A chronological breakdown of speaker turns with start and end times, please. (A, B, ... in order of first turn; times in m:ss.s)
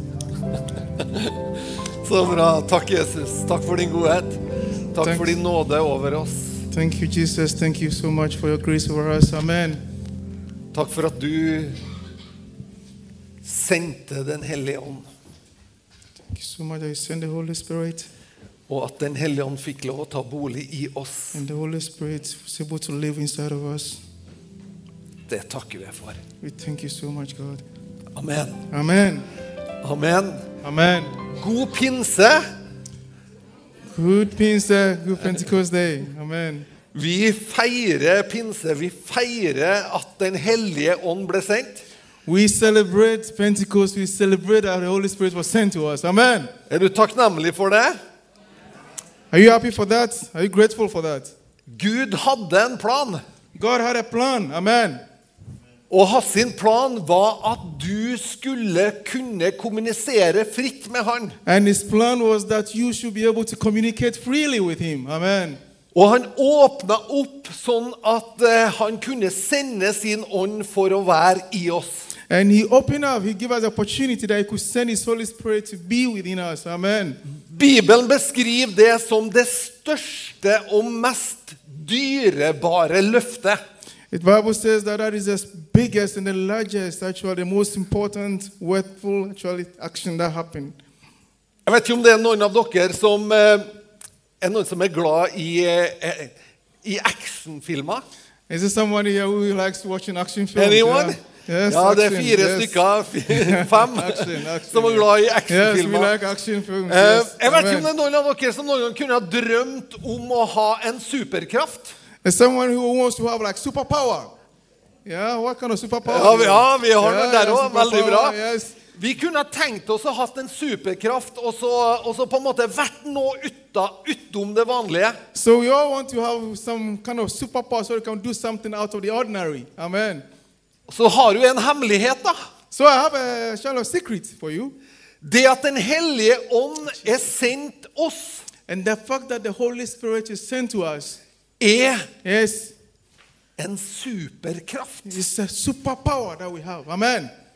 0:00.9-0:06.6 A
0:05.0-0:05.3 B
0:06.7-0:09.8 B
0:10.7-0:11.8 A
0:13.4-0:15.1 A
0:16.3-0:18.1 B
0:18.7-0:21.4 A
0:21.3-0:24.0 B
0:25.3-0:26.2 A
0:26.4-0:27.6 B
0:28.2-0:28.6 A
0:28.7-0:29.3 B
0:29.8-0:30.4 A
0:30.6-0:31.2 B
0:31.3-0:32.4 A
0:33.9-0:36.7 B
0:36.9-0:41.8 A
0:42.2-0:46.5 B
0:46.7-0:48.0 A
0:49.3-0:51.3 B
0:51.7-0:53.2 A
0:53.6-0:55.0 B
0:55.9-1:01.4 A
1:01.4-1:05.6 B
1:05.9-1:12.0 A
1:12.3-1:17.2 B
1:17.3-1:23.6 A
1:24.1-1:30.8 B
1:31.7-1:33.7 A
1:34.4-1:38.0 A
1:38.5-1:47.9 B
1:40.6-1:46.1 A
1:46.9-1:51.9 A
1:52.2-1:54.3 B
1:55.0-1:58.8 B
1:56.0-1:58.4 A
1:58.9-2:05.2 A
2:05.3-2:10.2 B
2:10.9-2:12.4 A
2:12.7-2:14.8 B
2:15.2-2:18.4 A
2:18.7-2:21.2 B
2:21.6-2:22.1 A
2:22.2-2:22.7 B
2:23.6-2:25.2 A
2:25.0-2:27.3 B